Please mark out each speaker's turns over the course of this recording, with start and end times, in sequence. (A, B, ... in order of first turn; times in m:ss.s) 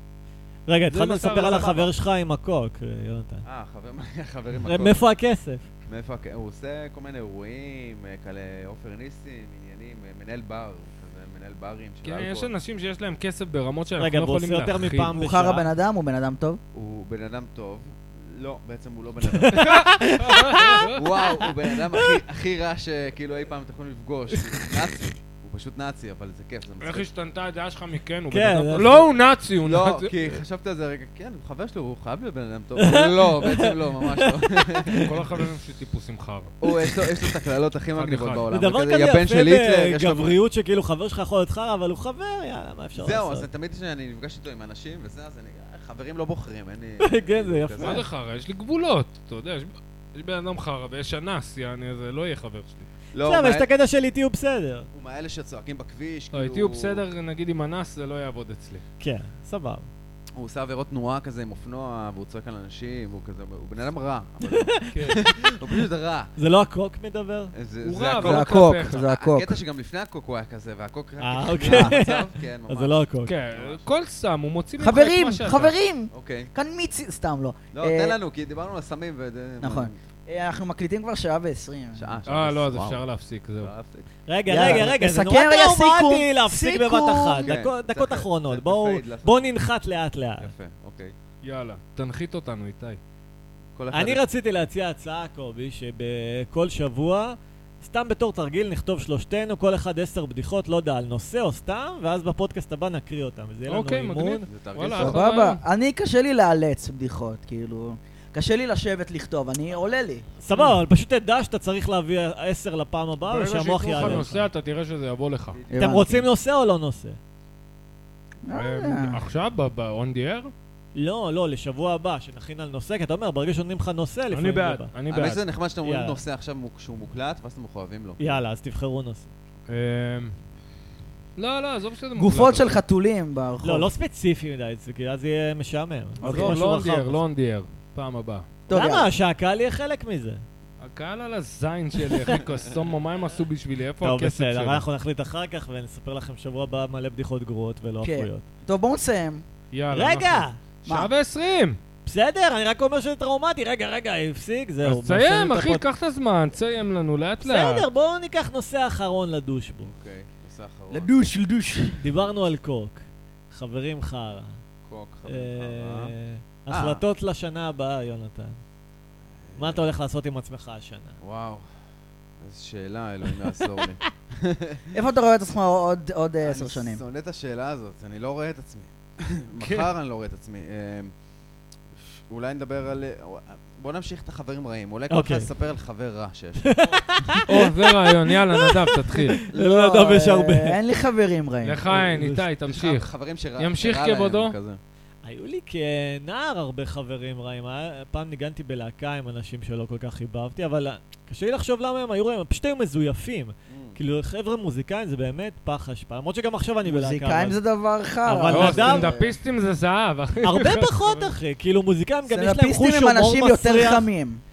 0:00.7-0:03.4 A
0:00.9-0:01.9 B
0:03.4-0:05.0 C
0:04.6-0:05.7 A
0:05.9-0:12.5 C
0:12.0-0:15.1 B
0:14.0-0:15.7 A
0:15.1-0:16.6 D
0:16.7-0:19.8 C
0:19.2-0:20.9 A
0:19.5-0:21.0 B
0:21.0-0:27.1 C
0:21.4-0:22.2 A
0:24.3-0:24.7 A
0:26.8-0:30.2 B
0:28.3-0:29.1 A
0:29.6-0:35.2 C
0:32.8-0:35.2 A
0:35.0-0:36.5 B
0:36.6-0:40.4 C
0:36.6-0:37.3 A
0:37.9-0:38.4 B
0:38.5-0:43.5 A
0:43.0-0:48.0 C
0:47.0-0:48.0 A
0:47.8-0:52.9 B
0:53.1-0:53.7 C
0:53.2-0:54.9 A
0:54.9-0:57.0 C
0:56.3-0:58.8 B
0:59.0-0:59.9 A
1:00.4-1:06.3 C
1:04.4-1:05.2 A
1:04.9-1:05.2 B
1:06.4-1:07.5 A
1:07.5-1:13.9 C
1:07.8-1:09.0 B
1:08.2-1:09.6 D
1:11.2-1:13.3 A
1:11.6-1:11.9 D
1:13.2-1:15.7 B
1:14.8-1:18.2 D
1:16.1-1:16.5 C
1:17.7-1:19.9 C
1:19.6-1:22.2 D
1:21.9-1:23.0 C
1:22.3-1:23.7 B
1:23.6-1:24.1 C
1:24.3-1:30.5 A
1:24.5-1:27.5 D
1:24.6-1:24.9 C
1:27.4-1:29.4 C
1:30.4-1:31.1 C
1:31.4-1:33.0 B
1:33.7-1:34.2 C
1:33.9-1:44.5 A
1:43.7-1:45.6 B
1:44.5-1:45.2 C
1:45.0-1:50.3 D
1:50.4-1:54.5 A
1:53.2-1:55.6 B
1:55.5-1:56.0 C
1:55.7-1:56.2 D
1:55.7-1:57.2 A
1:58.4-1:59.2 D
1:58.5-2:00.5 B
2:00.9-2:04.9 A
2:04.3-2:05.4 B
2:05.1-2:08.4 C
2:05.8-2:06.2 A
2:08.2-2:09.3 A
2:09.7-2:10.3 B
2:11.4-2:12.8 B
2:12.2-2:13.9 D
2:13.6-2:17.2 A
2:16.2-2:16.6 D
2:16.2-2:18.5 B
2:18.7-2:19.1 D
2:18.7-2:20.4 A
2:20.8-2:24.8 B
2:24.0-2:28.5 A
2:28.0-2:29.4 D
2:29.7-2:31.8 B
2:29.9-2:30.6 A
2:32.0-2:35.8 A
2:34.8-2:37.8 B
2:37.4-2:39.9 A
2:39.8-2:41.1 C
2:40.9-2:42.0 D
2:42.0-2:44.6 A
2:44.9-2:46.1 C
2:45.3-2:48.6 A
2:46.7-2:47.0 C
2:49.4-2:49.8 C
2:49.6-2:51.2 A
2:51.2-2:51.6 C
2:52.4-2:55.0 C
2:54.9-2:57.0 D
2:56.4-3:01.1 C
2:59.6-2:59.9 B
3:02.1-3:06.8 C
3:05.1-3:05.5 A
3:06.6-3:10.8 A
3:07.5-3:09.4 B
3:09.5-3:11.8 D
3:11.6-3:14.6 B
3:11.8-3:12.4 A
3:12.6-3:14.8 C
3:15.2-3:27.6 A
3:23.7-3:24.0 C
3:26.8-3:29.3 D
3:28.2-3:29.1 A
3:28.5-3:31.3 B
3:29.0-3:29.3 C
3:30.4-3:34.0 A
3:32.3-3:34.4 D